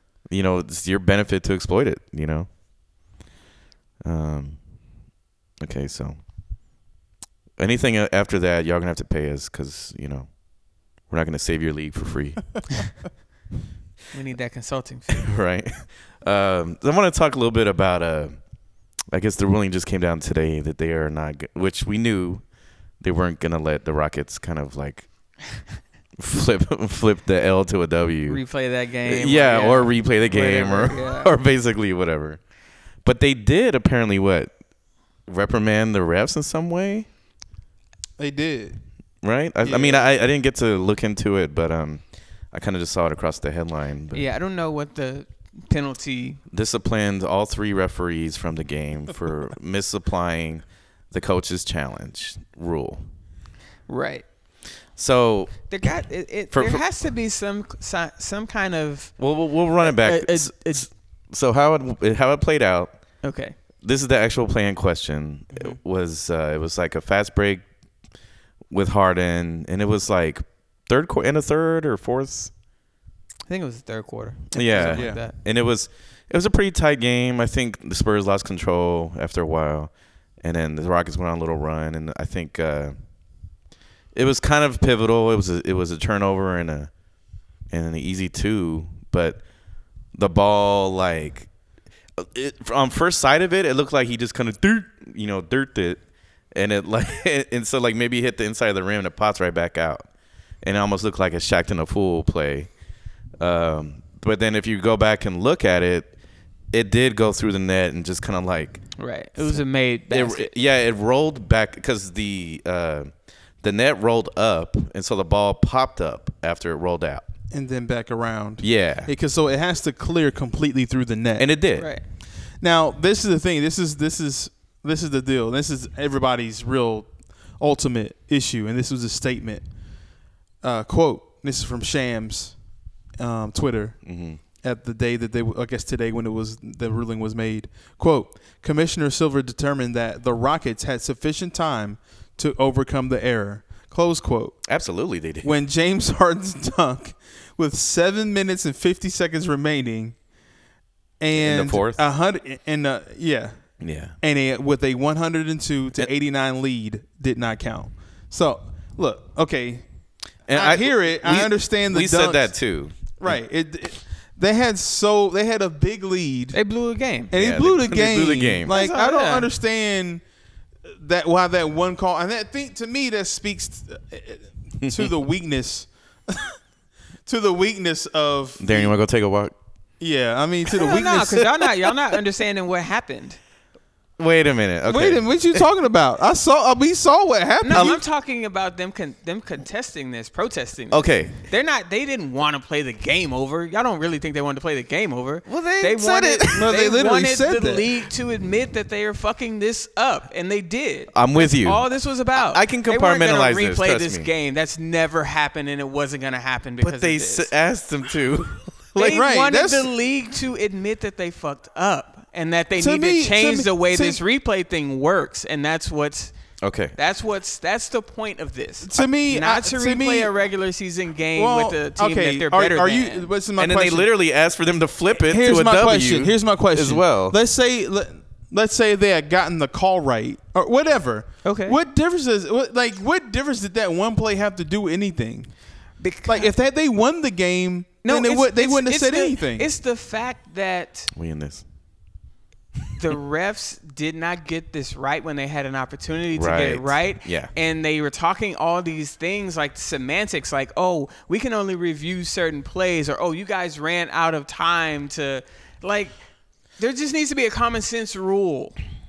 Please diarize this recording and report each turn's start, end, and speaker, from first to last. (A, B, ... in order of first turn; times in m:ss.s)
0:00.3-0:02.5 A
0:04.0-0:04.6 A
0:05.6-0:06.2 A
0:07.6-0:10.3 A
0:11.1-0:12.8 A
0:14.1-0:15.3 B
0:15.1-0:18.4 A
0:19.1-0:22.4 A
0:23.0-0:25.1 A
0:26.2-0:28.4 A
0:28.3-0:31.3 B
0:29.0-0:32.4 A
0:33.0-0:34.5 A
0:35.3-0:37.1 A
0:38.2-0:38.8 C
0:39.2-0:44.2 A
0:39.6-0:40.1 C
0:44.1-0:46.4 B
0:46.5-0:53.0 A
0:53.9-0:54.2 B
0:55.0-0:55.7 A
0:55.7-0:59.1 B
0:56.5-0:56.8 A
0:59.2-1:02.9 A
0:59.8-1:00.9 B
1:03.2-1:03.6 B
1:03.8-1:07.6 A
1:08.7-1:12.5 A
1:13.5-1:15.3 B
1:14.5-1:19.9 A
1:14.8-1:15.2 C
1:20.4-1:22.9 A
1:24.1-1:26.9 A
1:27.7-1:29.4 A
1:30.1-1:31.5 A
1:32.2-1:36.0 A
1:36.5-1:40.1 A
1:40.6-1:42.7 A
1:43.4-1:46.1 A
1:46.7-1:53.1 A
1:49.0-1:50.5 B
1:53.6-1:57.3 A
1:57.5-2:01.5 C
1:58.6-1:59.1 A
2:01.4-2:01.9 A
2:01.8-2:02.0 B
2:02.6-2:09.6 C
2:10.6-2:12.6 C
2:13.2-2:14.0 C
2:14.0-2:14.4 A
2:14.6-2:24.6 C
2:24.7-2:25.5 A
2:25.4-2:30.2 C
2:31.2-2:33.7 C
2:31.4-2:32.0 A
2:33.8-2:34.1 A
2:34.2-2:39.8 C
2:40.5-2:43.4 A
2:40.5-2:42.5 C
2:43.2-2:46.6 C
2:46.5-2:47.3 B
2:47.3-2:50.2 C
2:47.3-2:48.8 A
2:48.7-2:49.5 B
2:50.9-2:56.6 C
2:54.8-2:55.1 A
2:57.3-2:58.9 C
2:58.6-2:59.5 A
3:00.0-3:01.4 C
3:00.7-3:03.4 B
3:04.2-3:05.6 A
3:04.9-3:08.0 C
3:07.6-3:27.5 B
3:10.9-3:11.3 A
3:15.5-3:16.6 A
3:16.5-3:17.9 C
3:21.1-3:21.8 A
3:22.3-3:24.3 A
3:26.8-3:29.2 A
3:29.0-3:36.3 B
3:29.0-3:29.9 C
3:32.8-3:34.2 C
3:36.6-3:37.0 A
3:37.0-3:43.3 B
3:38.8-3:40.3 C
3:41.4-3:44.1 C
3:43.6-3:47.4 A
3:45.1-3:55.5 C
3:51.4-3:51.8 B
3:56.0-3:56.5 B
3:56.3-3:59.7 C
3:58.0-4:01.1 B
4:01.1-4:01.6 A
4:03.0-4:16.2 B
4:06.3-4:07.5 A
4:16.8-4:18.8 B